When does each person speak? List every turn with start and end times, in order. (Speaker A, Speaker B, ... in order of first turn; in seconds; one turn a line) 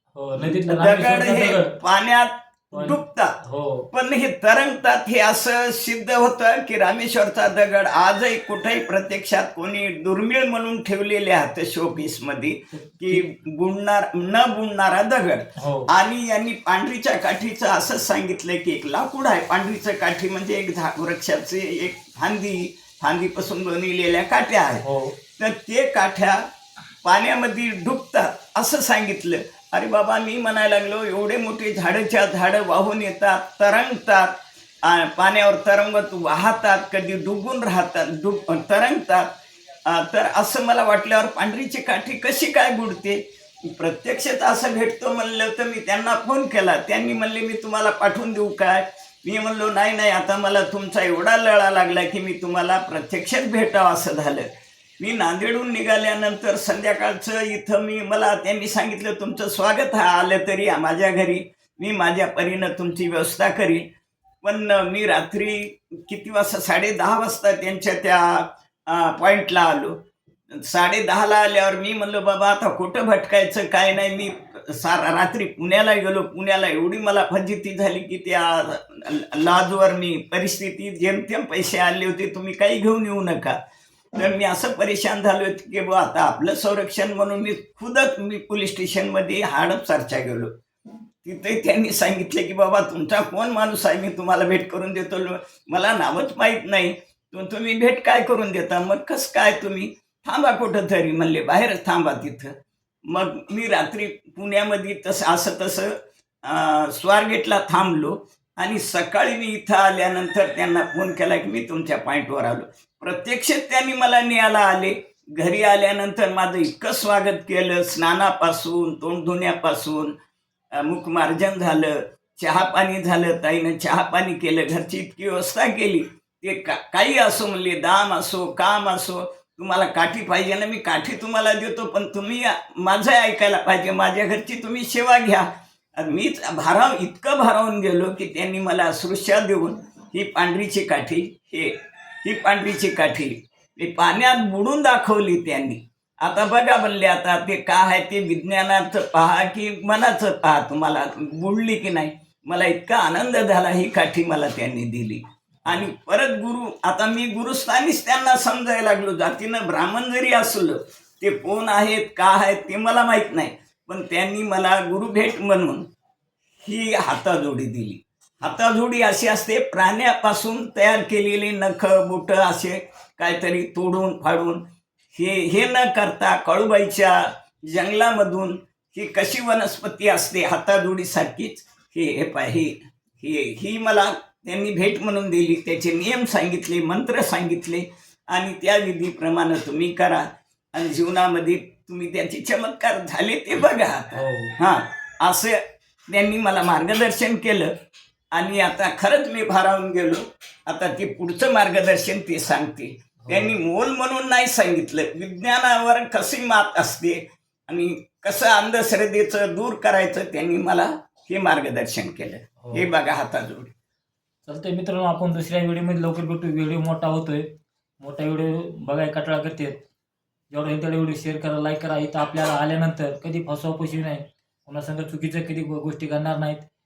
Speaker A: 0.2-1.8
Speaker B: 0.4-3.3
Speaker A: 2.7-3.9
Speaker B: 3.9-24.8
Speaker A: 12.7-13.3
Speaker A: 15.6-15.9
Speaker A: 24.8-25.1
Speaker B: 25.4-26.4
Speaker B: 27.0-39.3
Speaker B: 39.9-54.5
Speaker B: 55.0-63.9
Speaker B: 64.4-70.0
Speaker B: 70.5-83.6
Speaker B: 84.1-90.5
Speaker B: 91.2-102.5
Speaker B: 103.1-105.9
Speaker B: 106.4-120.1
Speaker B: 120.8-165.8
Speaker B: 166.6-174.6
Speaker B: 175.1-197.7
Speaker A: 194.2-194.6
Speaker B: 198.3-213.7
Speaker A: 203.2-203.6
Speaker A: 212.6-212.9
Speaker A: 214.5-217.5
Speaker A: 218.0-219.8
Speaker A: 220.5-226.7